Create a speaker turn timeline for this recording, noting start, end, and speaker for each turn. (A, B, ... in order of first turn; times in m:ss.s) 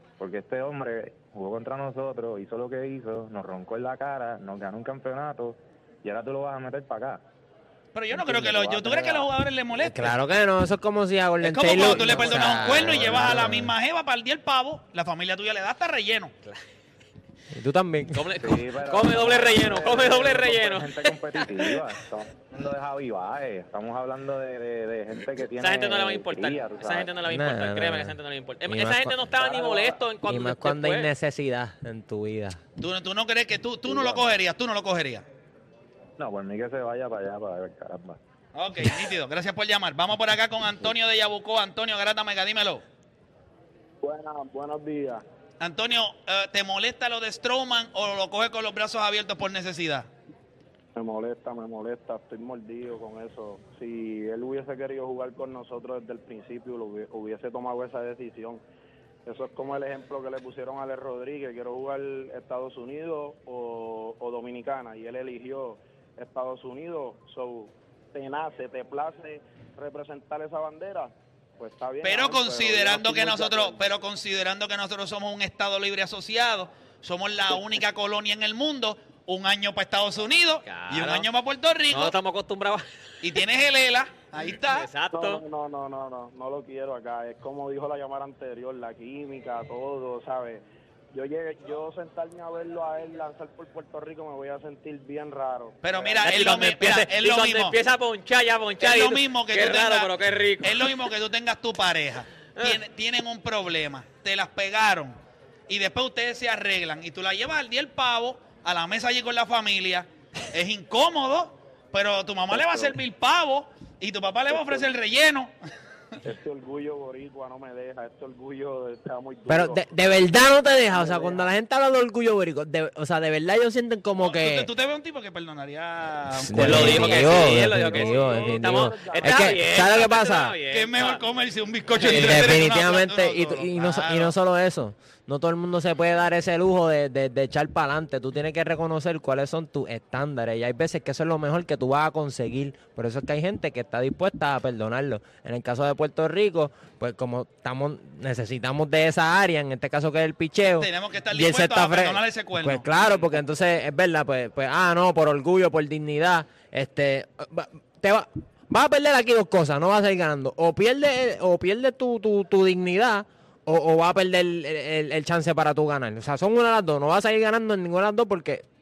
0:00.2-0:07.2 A
0:07.9-0:10.2 B
0:08.1-0:09.3 A
0:09.8-0:13.8 C
0:11.4-0:16.3 B
0:12.1-0:12.5 D
0:12.9-0:13.2 A
0:17.6-0:18.2 C
0:18.1-0:21.7 D
0:18.4-0:27.1 A
0:25.5-0:31.1 D
0:27.2-0:29.2 C
0:29.4-0:30.0 A
0:30.2-0:32.6 C
0:32.8-0:35.2 B
0:33.8-0:34.3 A
0:36.2-0:38.2 A
0:38.5-0:42.8 B
0:44.0-0:45.2 E
0:45.6-0:50.1 B
0:51.0-0:58.6 E
0:59.2-1:13.9 E
1:12.0-1:22.1 B
1:20.6-1:21.3 D
1:21.9-1:22.9 D
1:23.2-1:24.9 B
1:24.6-1:25.4 D
1:25.1-1:36.4 E
1:35.8-1:37.8 B
1:36.2-1:41.1 D
1:38.8-1:45.2 B
1:45.7-1:55.5 B
1:52.5-1:52.9 E
1:54.5-1:54.9 E
1:56.2-1:59.8 E
1:59.5-2:04.7 C
2:00.9-2:01.5 E
2:04.2-2:07.1 B
2:06.3-2:10.6 C
2:06.6-2:11.2 D
2:07.0-2:09.8 E
2:10.7-2:14.3 B
2:12.0-2:12.5 D
2:12.0-2:48.6 C
2:30.8-2:32.9 B